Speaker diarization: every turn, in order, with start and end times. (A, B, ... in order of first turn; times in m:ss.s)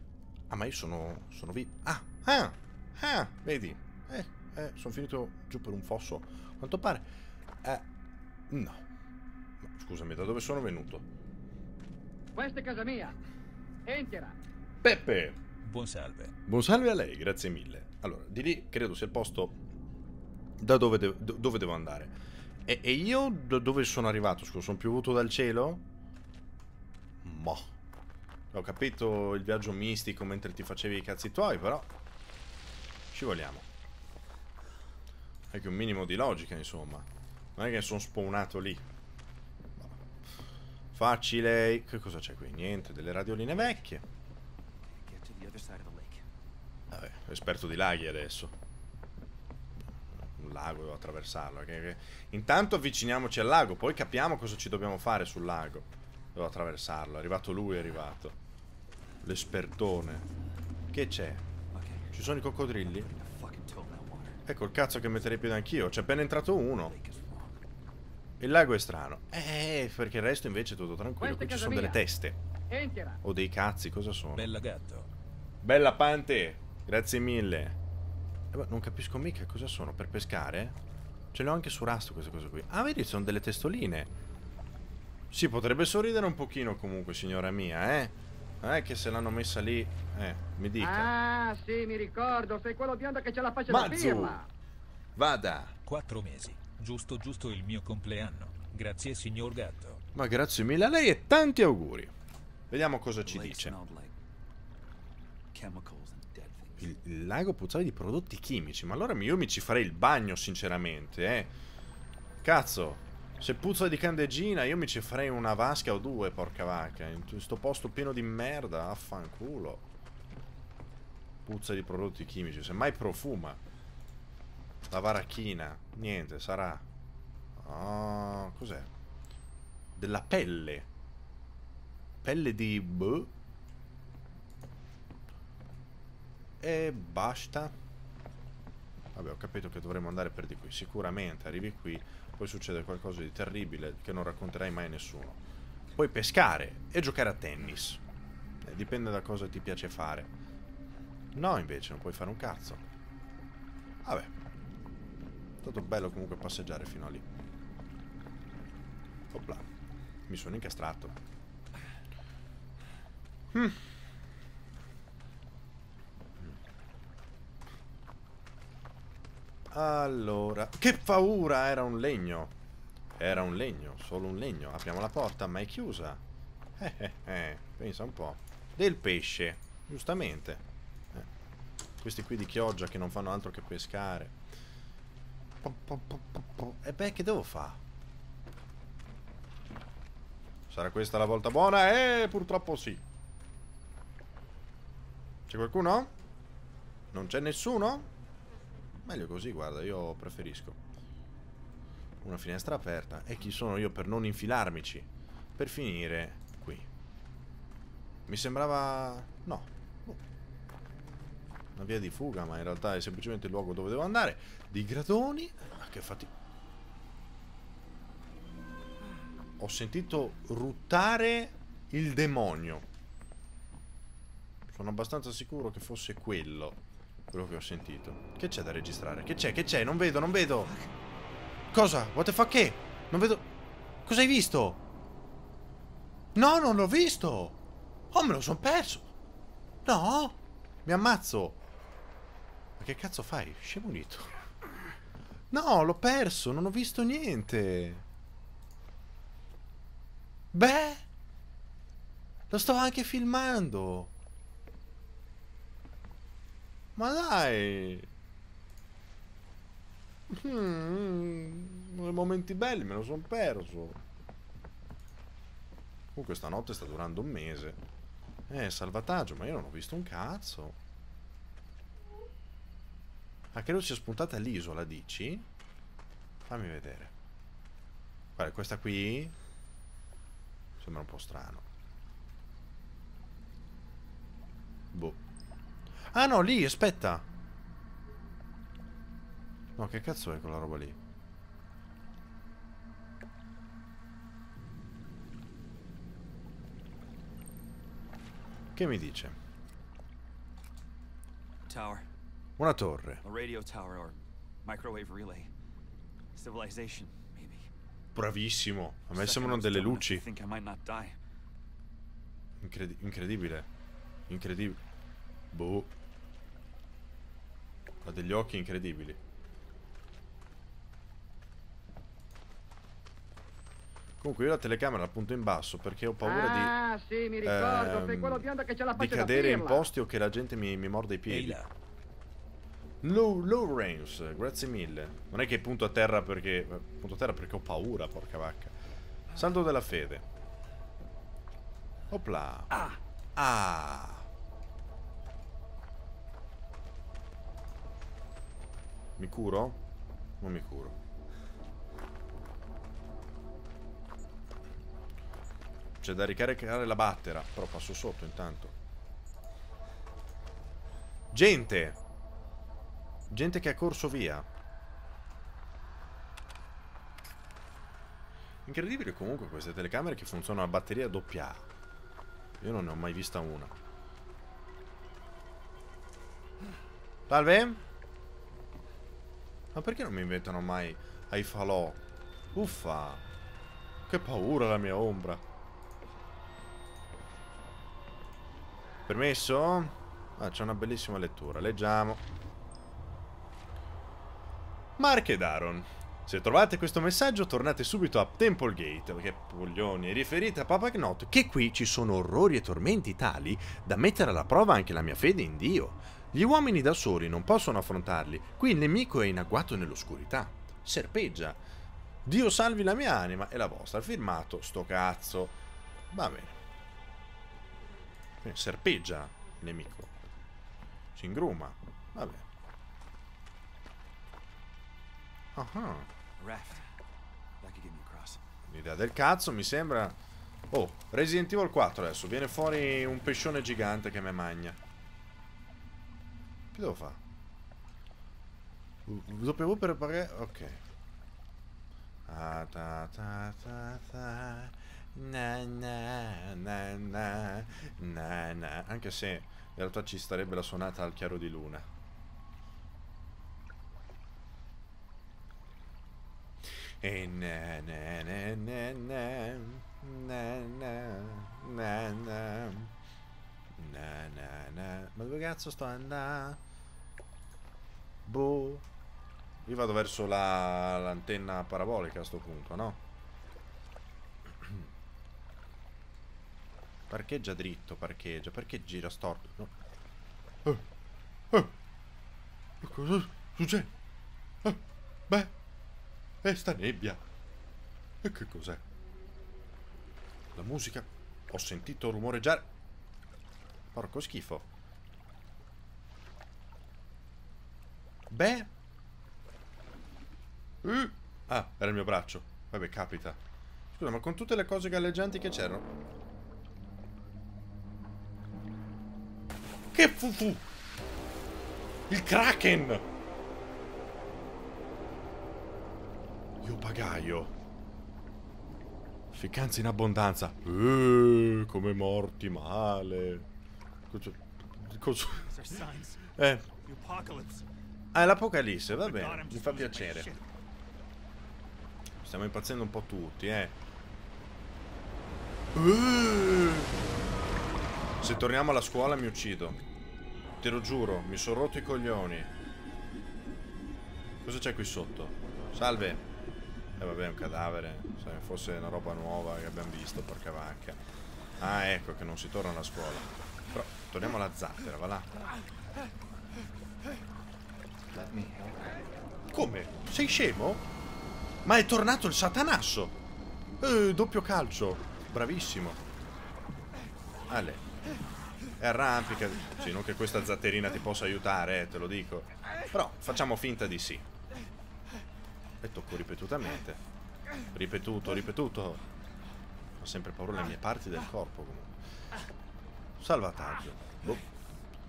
0:00.5-0:07.1 A
0:08.5-0:08.8 A
0:09.6-0:11.0 A
0:12.3-0:13.2 B
0:13.8-0:14.3 B
0:14.8-0:15.4 A
0:15.6-0:16.3 C
0:16.5-0:19.6 A
0:20.6-0:22.1 A
0:22.6-0:25.8 A
0:27.2-0:27.7 A
0:28.5-0:31.9 A
0:33.1-0:33.7 A
0:35.5-0:38.8 A
0:40.9-0:44.0 A
0:44.8-0:46.2 D
0:46.9-0:48.5 A
0:50.2-0:58.4 A
0:59.2-1:00.3 A
1:00.9-1:01.4 A
1:01.7-1:02.1 D
1:02.1-1:03.1 A
1:03.1-1:04.4 D
1:04.4-1:07.0 A
1:06.8-1:07.6 D
1:08.4-1:12.4 A
1:11.2-1:12.0 B
1:12.7-1:13.2 B
1:13.2-1:14.5 A
1:14.3-1:15.1 C
1:15.6-1:17.8 A
1:18.5-1:20.8 A
1:21.3-1:24.1 A
1:25.3-1:31.1 A
1:30.8-1:34.4 B
1:33.7-1:34.4 A
1:35.2-1:35.7 A
1:35.8-1:40.0 C
1:40.1-1:42.1 A
1:42.7-1:43.8 A
1:43.2-1:44.1 D
1:45.5-1:46.9 D
1:46.8-1:51.5 A
1:52.4-1:59.8 A
2:01.4-2:03.6 A
2:04.9-2:06.8 A
2:07.6-2:08.9 A
2:10.0-2:10.9 A
2:12.2-2:13.3 A
2:16.6-2:17.7 A
2:19.1-2:25.4 A
2:26.0-2:28.0 A
2:28.6-2:30.3 A
2:31.3-2:32.8 A
2:34.0-2:34.3 A
2:35.6-2:37.2 A
2:39.3-2:39.6 A
2:40.3-2:41.2 A
2:43.5-2:43.8 A
2:49.7-2:52.5 A
2:53.2-2:56.2 A
2:56.8-3:01.3 A
3:02.0-3:04.4 A
3:05.6-3:07.8 A
3:10.7-3:13.0 A
3:15.5-3:16.1 A
3:17.1-3:18.1 A
3:19.0-3:20.8 A
3:22.2-3:26.9 A
3:28.3-3:30.2 A
3:31.8-3:36.3 A
3:39.6-3:42.8 A
3:44.7-3:46.8 A
3:47.3-3:50.7 A
3:50.6-3:50.9 D
3:51.7-3:53.4 A
3:54.0-3:54.8 A
3:56.3-3:57.6 A
3:58.1-3:59.1 A
3:59.8-4:01.6 A
4:02.8-4:04.3 A
4:05.5-4:08.0 A
4:10.5-4:11.0 A
4:12.5-4:14.1 A
4:17.0-4:18.1 A
4:20.3-4:24.0 A
4:26.1-4:27.8 A
4:28.5-4:30.8 A
4:33.5-4:35.4 A
4:36.4-4:37.1 A
4:38.4-4:39.3 A
4:40.8-4:41.6 A
4:44.9-4:45.2 A
4:46.0-4:47.2 A
4:49.8-4:51.0 A
4:58.8-4:59.4 A
5:01.7-5:02.1 D
5:02.6-5:03.2 A
5:03.2-5:05.5 D
5:06.3-5:07.7 D
5:08.1-5:10.2 A
5:09.1-5:11.2 D
5:12.6-5:13.7 A
5:14.3-5:14.8 A
5:15.5-5:15.9 A
5:18.0-5:19.2 A
5:24.2-5:26.7 A
5:26.2-5:29.9 B
5:27.4-5:31.6 A
5:31.3-5:31.7 C
5:33.0-5:38.7 A
5:39.3-5:40.2 A
5:42.1-5:44.2 A
5:42.7-5:43.0 D
5:49.2-5:49.8 A
5:50.4-5:51.0 A
5:56.0-5:58.7 A
6:01.3-6:02.0 A
6:03.3-6:04.5 A
6:08.6-6:11.6 A
6:12.6-6:13.7 A
6:17.3-6:17.8 A
6:19.7-6:22.0 A
6:22.5-6:23.2 A
6:24.1-6:25.4 A
6:29.1-6:32.2 A
6:35.0-6:51.6 A
6:52.2-6:55.6 A
6:56.1-6:56.6 A
6:58.4-7:00.3 A
7:01.1-7:02.4 A
7:05.5-7:06.1 A
7:06.4-7:06.9 D
7:07.6-7:08.4 D
7:08.7-7:10.2 A
7:10.7-7:14.8 A
7:16.7-7:17.2 A
7:19.0-7:20.8 A
7:22.3-7:31.8 A
7:37.0-7:42.9 A
7:43.8-7:46.6 A
7:48.2-7:48.8 A
7:49.6-7:53.0 A
7:57.1-7:59.7 A
8:02.8-8:03.9 A
8:04.6-8:05.5 A
8:06.4-8:07.2 A
8:08.2-8:08.8 A
8:10.6-8:12.6 A
8:13.9-8:14.6 A
8:18.3-8:18.7 A
8:20.8-8:23.4 A
8:23.9-8:25.9 A
8:29.9-8:30.6 A
8:32.1-8:33.0 A
8:36.6-8:37.5 A
8:39.3-8:43.4 A
8:44.1-8:45.5 A
8:45.4-8:46.2 D
8:46.4-8:46.7 A
8:46.8-8:47.6 D
8:48.1-8:50.3 A
8:48.9-8:50.5 D
8:52.2-8:53.8 A
8:55.7-8:56.9 A
8:58.2-8:59.8 A
9:00.6-9:02.5 A
9:04.4-9:06.2 A
9:07.0-9:11.0 A
9:11.6-9:15.3 A
9:18.1-9:18.7 A
9:19.5-9:20.8 A
9:21.6-9:23.2 A
9:23.8-9:26.0 A
9:27.5-9:27.8 A
9:28.8-9:34.2 A
9:35.8-9:37.0 A
9:37.7-9:39.0 A
9:40.0-9:41.9 A
9:43.2-9:44.4 A